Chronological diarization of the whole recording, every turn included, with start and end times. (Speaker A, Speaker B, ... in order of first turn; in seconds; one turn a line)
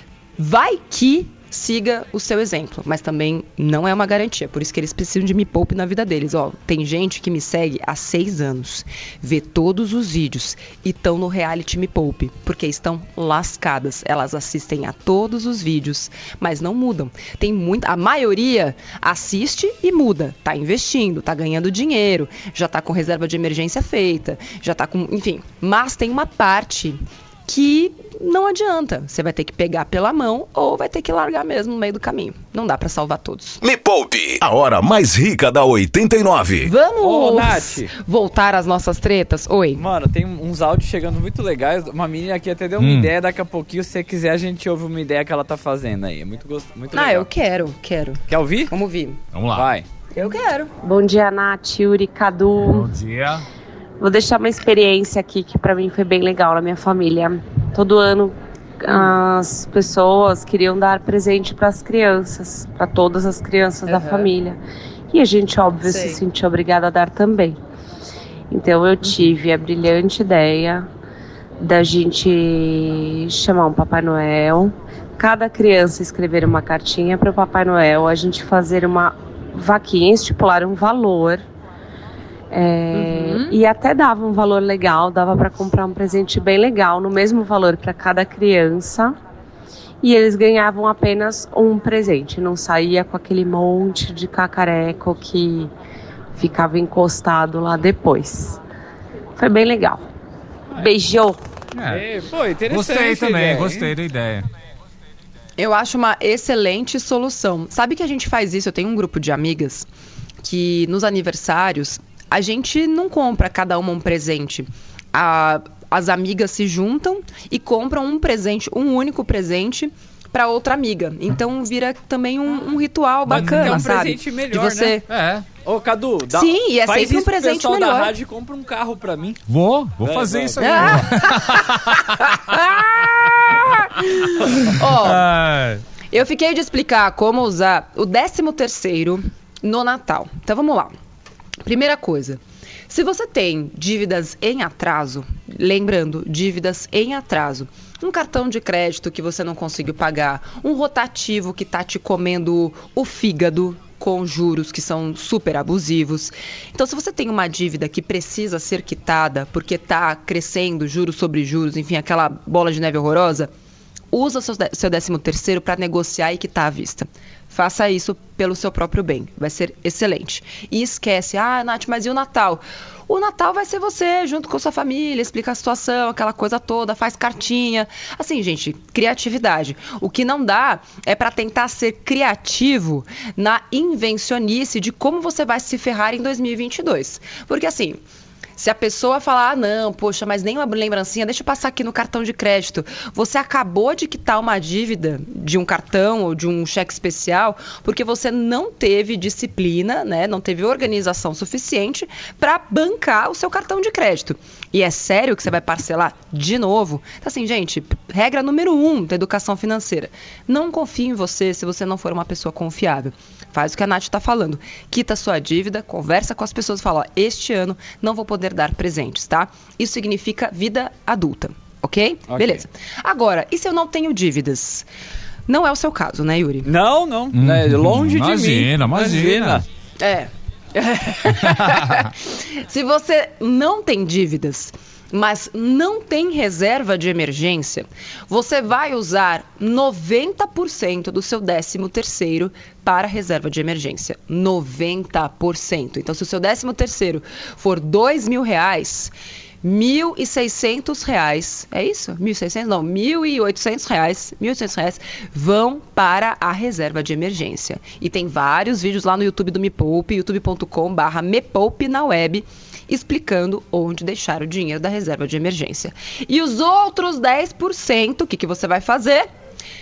Speaker A: 0.4-33.6
Speaker B: 33.6-36.7
Speaker A: 36.6-39.8
Speaker C: 37.0-37.9
Speaker C: 39.8-47.3
Speaker D: 42.8-43.1
Speaker A: 46.9-49.2
Speaker C: 48.3-48.7
Speaker D: 49.3-49.7
Speaker C: 49.5-49.9
Speaker A: 50.1-50.7
Speaker E: 50.8-52.9
Speaker D: 52.6-53.5
Speaker E: 54.0-67.6
Speaker A: 58.9-59.2
Speaker A: 63.9-64.3
Speaker A: 65.8-66.2
Speaker E: 68.5-70.9
Speaker E: 71.6-81.5
Speaker E: 82.5-89.2
Speaker A: 82.9-83.6
Speaker E: 90.0-95.7
Speaker E: 96.3-98.6
Speaker E: 99.4-100.0
Speaker E: 100.8-101.4
Speaker D: 101.7-102.0
Speaker C: 101.9-103.9
Speaker D: 102.7-104.5
Speaker A: 105.6-109.9
Speaker A: 110.4-125.1
Speaker C: 123.3-125.0
Speaker D: 123.3-123.8
Speaker D: 125.1-125.5
Speaker C: 125.7-129.4
Speaker A: 126.3-128.1
Speaker D: 129.5-132.3
Speaker C: 130.0-131.2
Speaker A: 130.6-131.7
Speaker A: 132.2-135.2
Speaker D: 134.5-135.8
Speaker A: 136.1-140.9
Speaker A: 141.7-163.5
Speaker A: 164.1-188.0
Speaker A: 188.6-224.9
Speaker C: 222.3-222.6
Speaker A: 225.5-226.7
Speaker C: 226.7-229.6
Speaker D: 227.3-229.6
Speaker A: 230.0-249.1
Speaker D: 231.4-232.1
Speaker A: 249.6-269.3